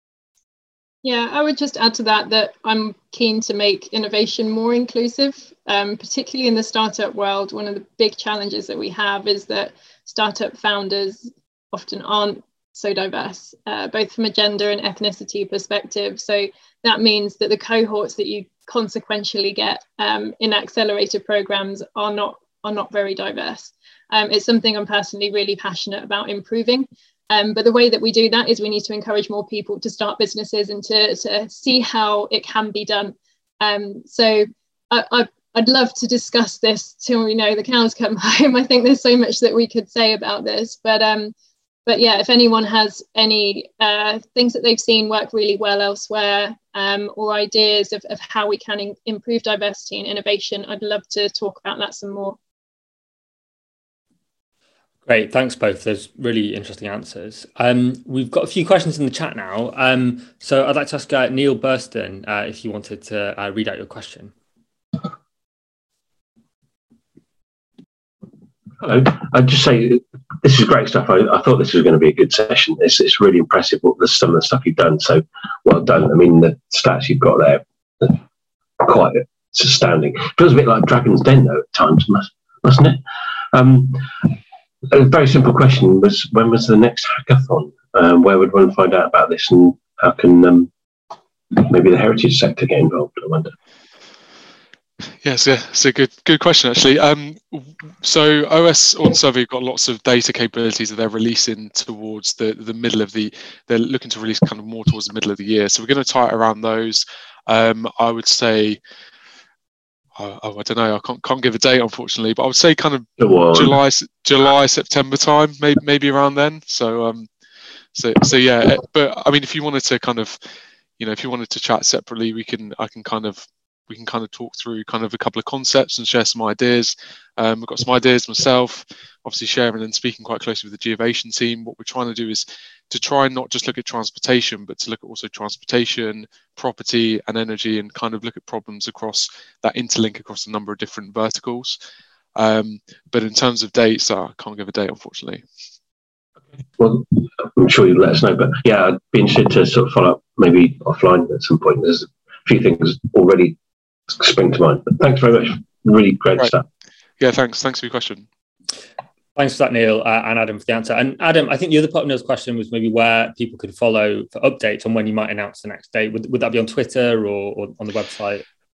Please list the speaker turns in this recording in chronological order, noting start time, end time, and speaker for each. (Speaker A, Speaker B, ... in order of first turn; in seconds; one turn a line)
Speaker A: 1.0-41.3
Speaker A: 41.9-52.4
Speaker B: 55.0-64.3
Speaker C: 68.8-78.2
Speaker C: 78.8-83.0
Speaker C: 83.5-84.4
Speaker C: 84.9-90.7
Speaker C: 91.5-93.5
Speaker D: 95.2-108.8
Speaker D: 110.2-117.3
Speaker C: 113.2-113.8
Speaker D: 117.9-120.4
Speaker D: 121.0-141.8
Speaker D: 142.3-145.4
Speaker C: 146.8-153.6
Speaker C: 154.1-156.7
Speaker D: 157.2-158.2
Speaker B: 159.3-168.4